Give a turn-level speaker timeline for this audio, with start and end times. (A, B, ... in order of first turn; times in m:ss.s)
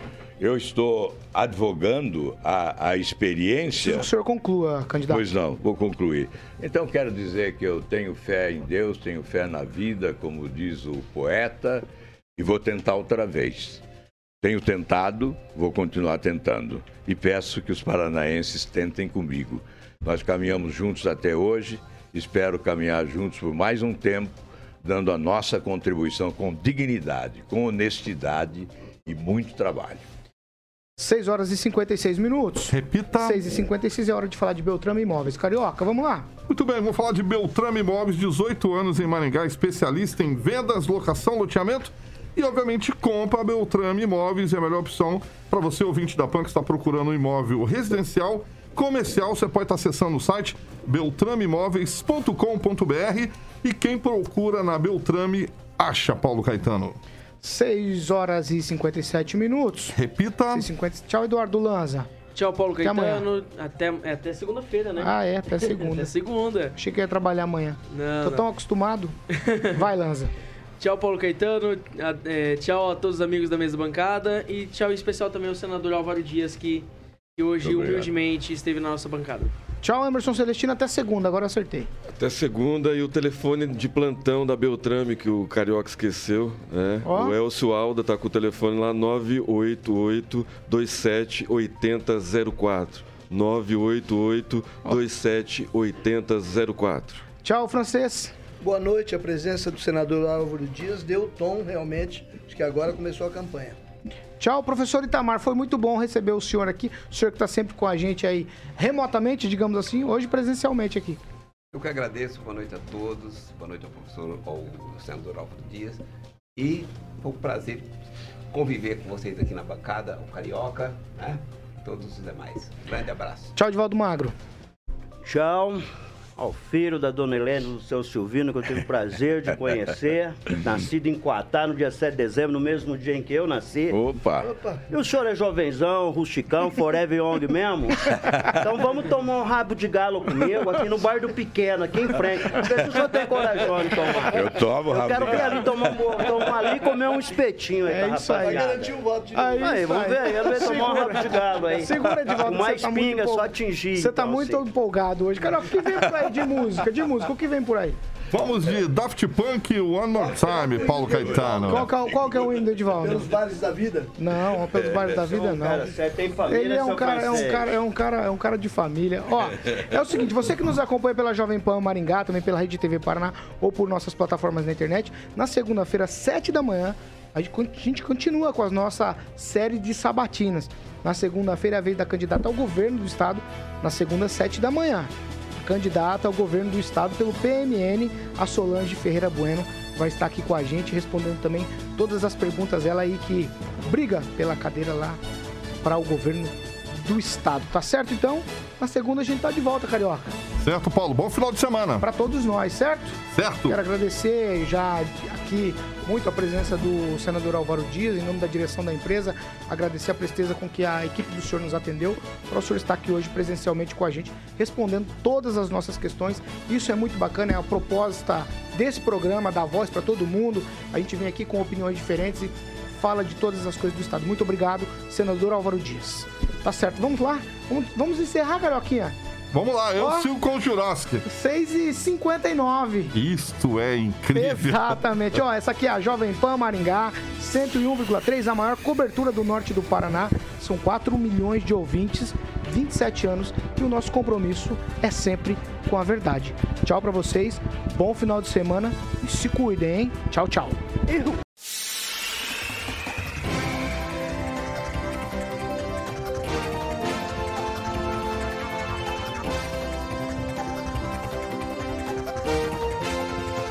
0:00.4-0:04.1 A
0:03.8-0:05.2 B
0:05.1-0:11.8 A
0:12.4-0:13.8 A
0:14.4-0:30.0 A
0:31.0-0:36.3 B
0:32.7-0:33.4 C
0:36.5-0:57.0 C
0:57.4-1:00.0 B
0:59.9-1:00.6 C
1:00.5-1:02.1 B
1:02.3-1:06.7 D
1:02.8-1:03.2 B
1:05.0-1:06.1 B
1:06.8-1:09.2 B
1:07.9-1:08.4 D
1:09.7-1:10.3 B
1:10.8-1:19.5 D
1:17.6-1:18.1 A
1:19.8-1:21.9 B
1:22.1-1:37.2 E
1:27.0-1:27.4 B
1:37.4-1:38.3 B
1:38.6-1:43.8 F
1:44.4-1:51.2 B
1:51.7-1:56.0 G
1:56.6-1:57.9 G
1:58.5-2:03.5 G
2:03.6-2:04.4 B
2:05.2-2:05.8 H
2:06.4-2:14.0 H
2:13.9-2:14.5 A
2:14.4-2:14.8 F
2:14.9-2:29.0 H
2:24.3-2:26.4 A
2:27.8-2:28.7 B
2:28.4-2:31.1 F
2:29.3-2:38.0 B
2:29.5-2:34.6 H
2:38.3-2:41.9 C
2:40.1-2:41.8 F
2:41.6-2:43.3 B
2:43.0-2:44.1 F
2:44.2-2:45.9 B
2:45.1-2:47.7 H
2:46.5-3:15.2 B
3:15.8-3:20.3 B
3:20.6-3:22.0 C
3:22.0-3:49.1 B
3:23.3-3:23.8 C
3:49.5-3:51.2 C
3:50.0-3:50.3 B
3:51.2-3:53.2 B
3:53.1-3:55.0 C
3:54.3-4:10.8 B
4:11.1-4:11.4 H